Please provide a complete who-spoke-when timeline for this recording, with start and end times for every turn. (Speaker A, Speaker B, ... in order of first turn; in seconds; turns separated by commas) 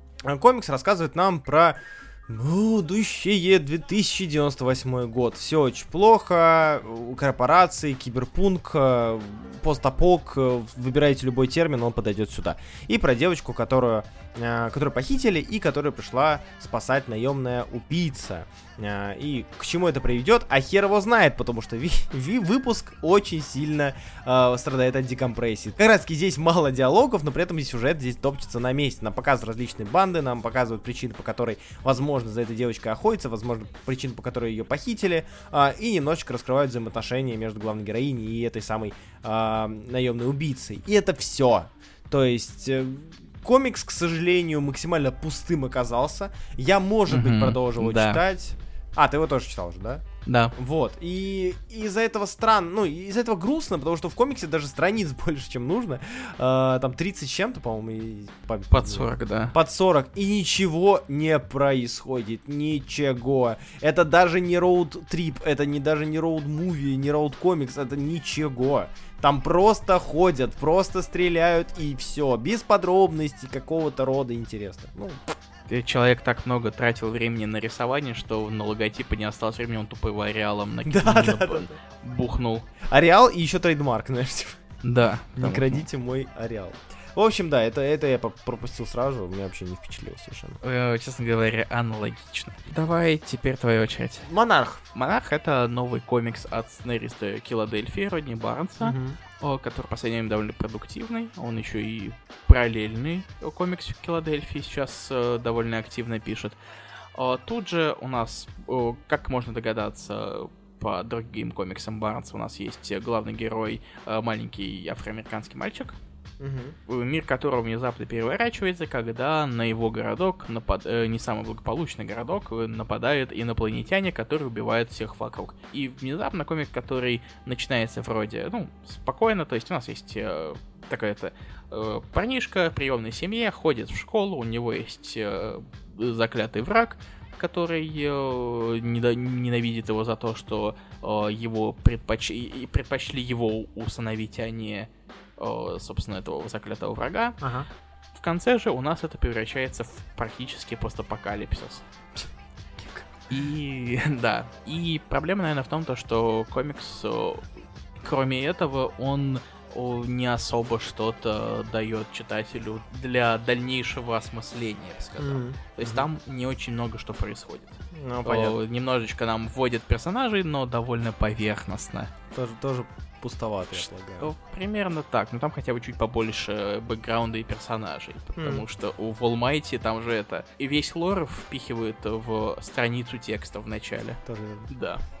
Speaker A: 0.2-50.0, Speaker B: 47.1-48.2, Speaker B: 50.2-50.5, Speaker A: 50.5-75.3, Speaker B: 58.7-59.5, Speaker B: 75.7-82.7, Speaker A: 80.8-81.7, Speaker A: 82.8-84.6, Speaker B: 84.8-85.8, Speaker A: 85.4-90.6, Speaker B: 90.6-94.3, Speaker A: 94.3-94.8, Speaker B: 94.9-106.6, Speaker A: 98.8-99.2, Speaker B: 107.2-116.0, Speaker A: 116.4-116.8, Speaker B: 116.9-147.4, Speaker A: 147.4-147.7, Speaker B: 148.1-151.8, Speaker A: 152.8-153.1, Speaker B: 153.3-157.4, Speaker B: 158.0-172.1, Speaker A: 165.2-166.1, Speaker A: 167.9-168.6, Speaker A: 172.3-174.3, Speaker B: 173.8-185.0, Speaker A: 178.4-178.6, Speaker A: 184.2-184.7